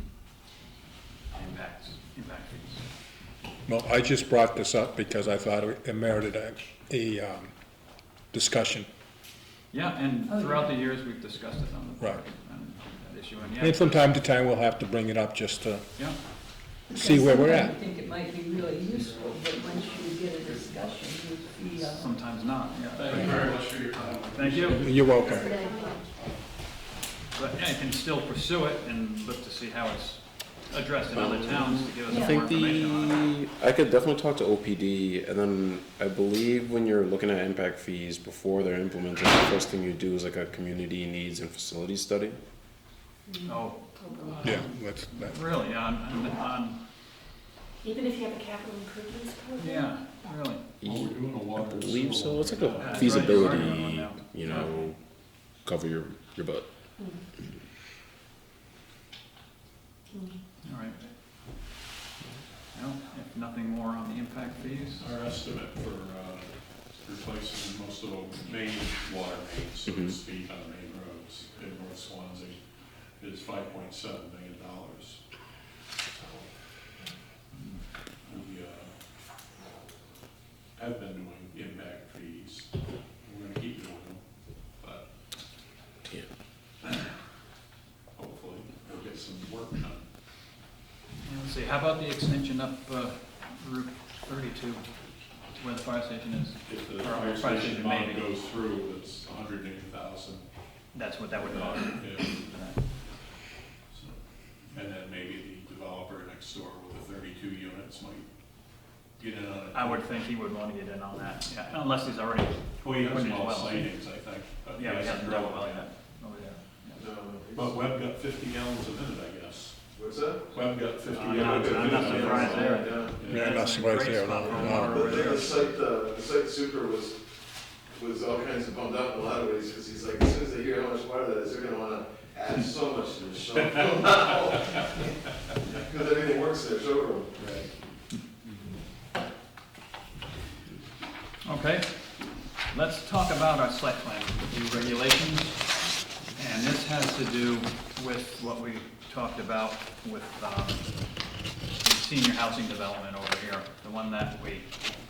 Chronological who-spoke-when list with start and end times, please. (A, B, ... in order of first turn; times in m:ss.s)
0:01.3-0:02.8 A
0:03.7-0:07.5 B
0:08.3-0:08.9 B
0:09.7-0:14.2 A
0:10.3-0:10.7 C
0:13.6-0:15.9 B
0:16.9-0:17.8 B
0:16.9-0:22.2 C
0:21.9-0:23.5 A
0:23.0-0:23.4 D
0:23.1-0:24.8 E
0:24.3-0:24.9 A
0:24.4-0:25.3 D
0:24.7-0:25.5 B
0:25.2-0:26.1 F
0:25.5-0:26.0 C
0:27.3-0:33.3 A
0:31.1-0:42.4 G
0:32.1-0:32.5 C
0:43.3-0:44.6 F
0:43.5-0:46.8 A
0:44.4-0:45.4 B
0:47.8-0:50.2 F
0:49.6-0:50.6 A
0:50.8-0:55.0 G
0:50.8-0:53.8 D
0:52.8-0:54.8 A
0:55.6-0:56.7 G
0:57.0-0:57.2 F
1:00.6-1:01.1 A
1:02.7-1:05.1 A
1:05.0-1:15.3 D
1:09.9-1:10.2 G
1:17.5-1:17.8 A
1:18.2-1:19.0 D
1:20.8-1:25.1 D
1:28.2-1:30.1 D
1:31.2-1:34.9 A
1:35.5-1:38.3 A
1:36.6-1:42.8 D
1:40.9-1:42.8 A
1:43.9-1:50.2 D
1:49.7-1:54.1 A
1:52.8-1:55.9 D
1:54.8-1:57.0 A
1:57.0-1:57.8 E
1:57.5-2:00.0 D
1:59.9-2:00.6 E
2:00.5-2:03.6 D
2:01.1-2:05.7 A
2:01.4-2:03.2 E
2:03.2-2:05.2 B
2:04.4-2:07.2 E
2:07.9-2:15.0 E
2:15.6-2:17.5 E
2:21.4-2:25.8 A
2:26.3-2:31.1 A
2:31.8-2:34.9 A